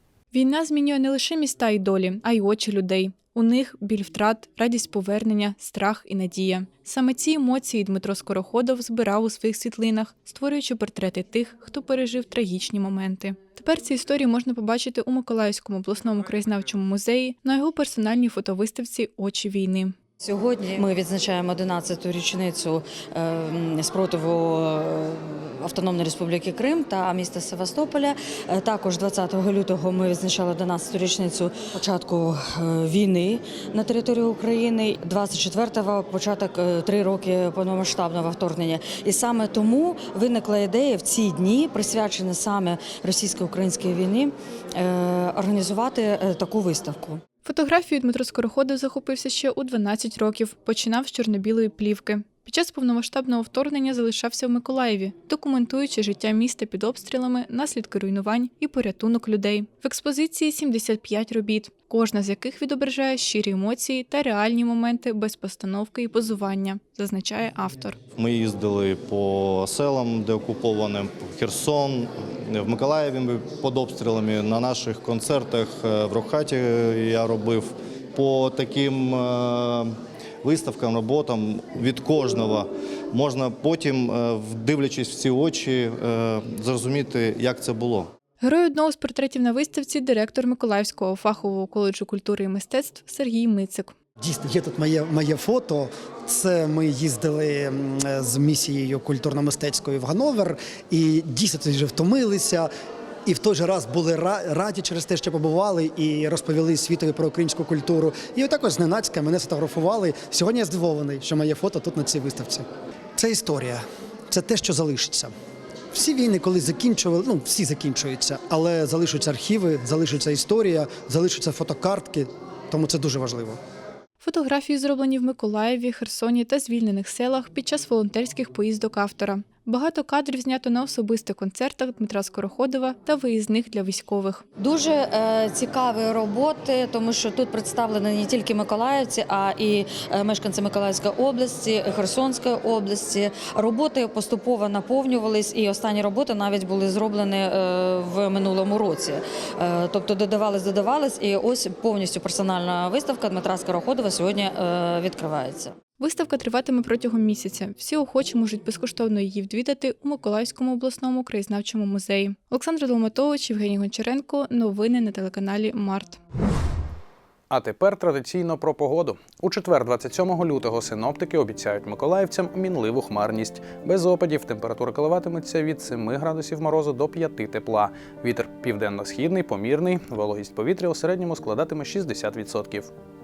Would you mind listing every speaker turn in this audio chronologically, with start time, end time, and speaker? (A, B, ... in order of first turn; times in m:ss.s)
0:00.3-0:19.9 A
0:20.2-0:47.2 B
0:47.4-1:08.0 A
1:08.2-1:19.9 C
1:20.4-1:28.1 C
1:28.4-1:33.9 A
1:34.2-1:42.7 D
1:43.2-1:55.3 D
1:55.9-2:03.6 D
2:04.2-2:14.4 A
2:14.6-2:35.7 B
2:36.0-2:46.2 A
2:47.5-3:02.9 E